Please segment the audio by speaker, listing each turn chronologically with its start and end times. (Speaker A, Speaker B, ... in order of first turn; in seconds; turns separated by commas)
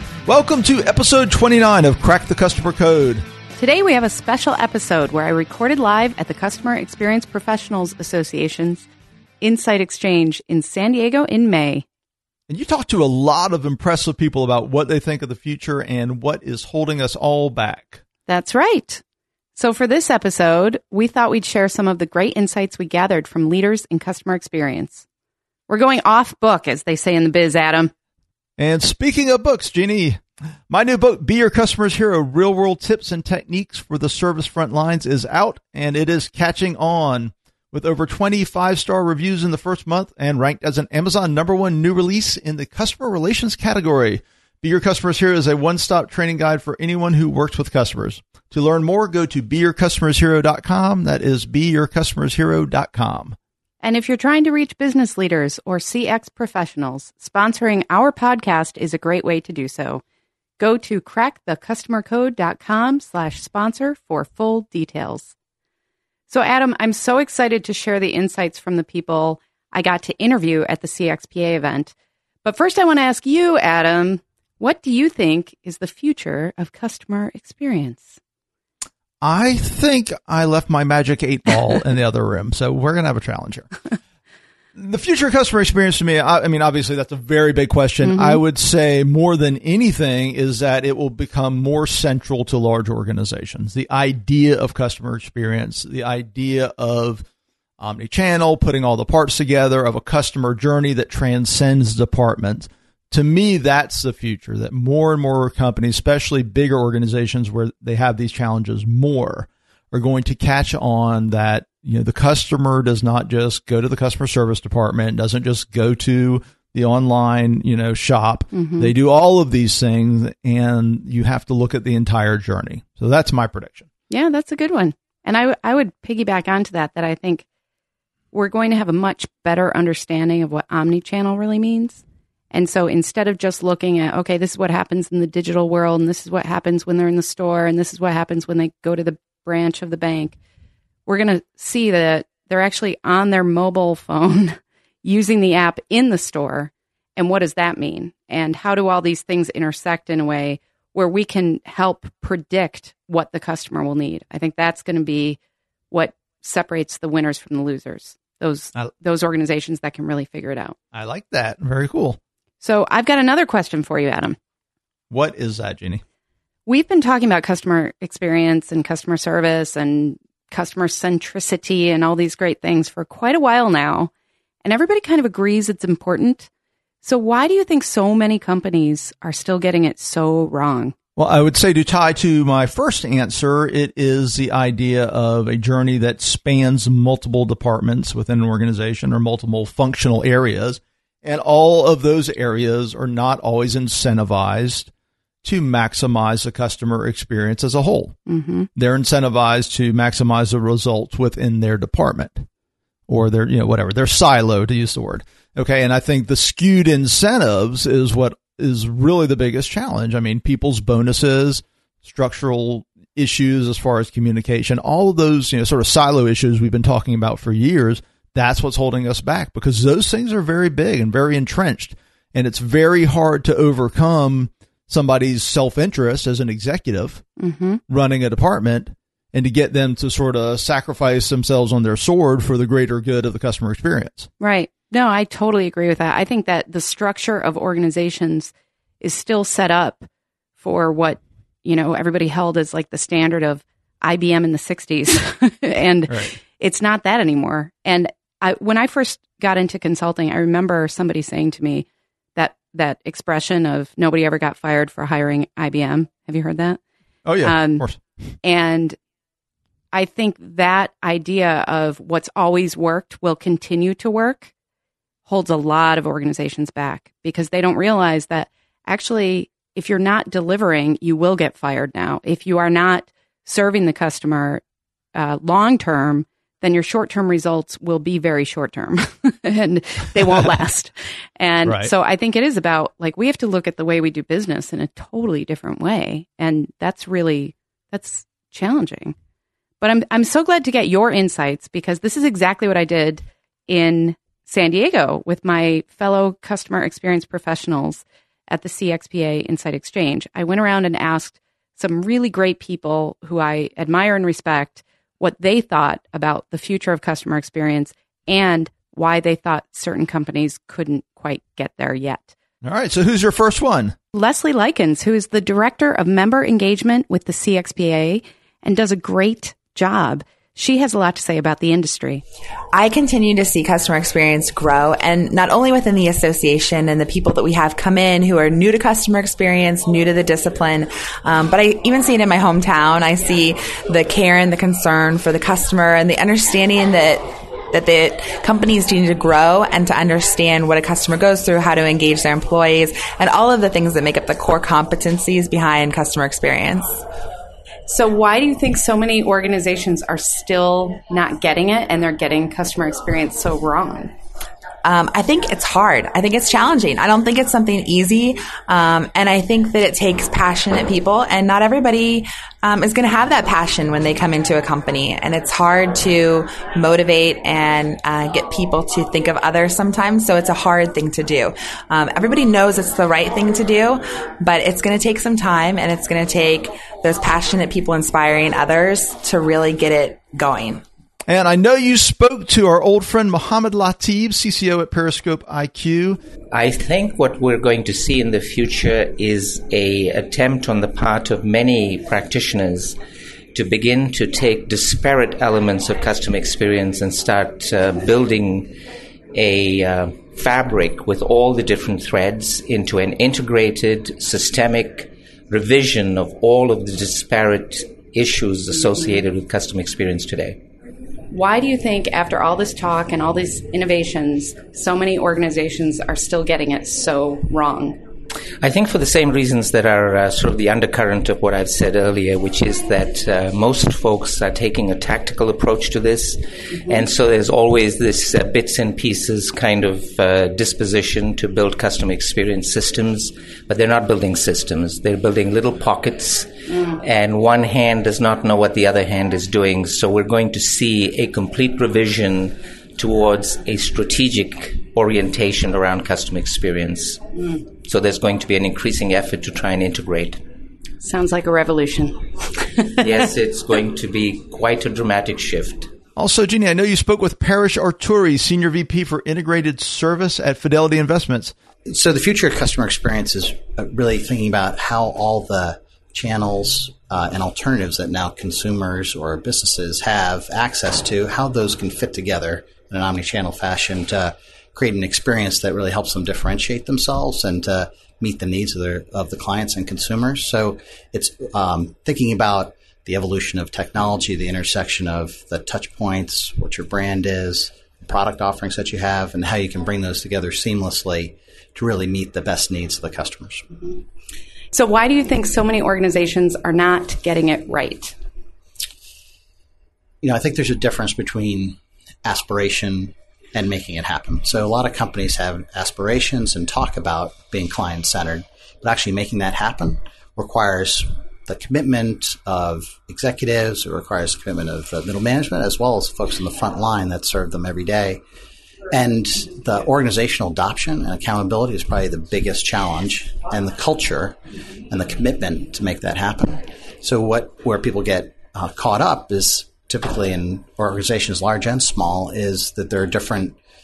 Speaker A: 0.3-3.2, Speaker B: 3.6-8.9, Speaker B: 9.4-11.8, Speaker A: 12.5-18.0, Speaker B: 18.3-19.0, Speaker B: 19.6-25.0, Speaker B: 25.7-27.9, Speaker A: 28.6-53.4, Speaker B: 53.8-60.0, Speaker B: 60.6-65.3, Speaker B: 66.3-71.9, Speaker B: 72.5-78.2, Speaker A: 79.2-83.7, Speaker A: 84.8-97.2, Speaker B: 88.0-88.4, Speaker A: 97.8-123.9, Speaker B: 118.5-118.9, Speaker B: 124.1-127.5, Speaker B: 128.3-140.4, Speaker B: 141.1-155.4, Speaker B: 155.9-160.8, Speaker A: 160.9-162.2, Speaker B: 162.6-164.4, Speaker A: 165.1-166.0, Speaker B: 166.7-174.1, Speaker B: 174.6-176.5, Speaker B: 177.0-180.9, Speaker A: 181.2-194.9, Speaker A: 195.4-198.2, Speaker B: 198.3-198.7, Speaker A: 198.8-202.5, Speaker A: 203.1-227.2, Speaker B: 227.4-227.8, Speaker A: 227.9-234.3, Speaker B: 234.4-240.1, Speaker B: 240.6-256.8, Speaker A: 246.1-246.3, Speaker A: 257.2-258.0, Speaker B: 257.4-257.9, Speaker B: 258.4-259.0, Speaker B: 259.9-264.5, Speaker B: 265.3-274.6, Speaker B: 275.1-289.1, Speaker A: 281.6-281.9, Speaker B: 289.8-312.3, Speaker A: 312.6-314.0, Speaker B: 314.1-322.2, Speaker C: 322.7-347.1, Speaker B: 347.9-354.1, Speaker C: 354.8-380.8, Speaker A: 381.3-386.2, Speaker D: 386.5-393.0, Speaker D: 393.5-398.7, Speaker D: 399.3-410.6, Speaker B: 411.3-418.0, Speaker D: 418.6-447.2, Speaker D: 447.9-450.4, Speaker B: 451.0-453.1, Speaker D: 453.0-455.9, Speaker A: 456.2-461.5, Speaker E: 461.9-493.6, Speaker B: 494.7-498.1, Speaker E: 500.2-518.2, Speaker E: 518.9-524.4, Speaker E: 524.9-533.6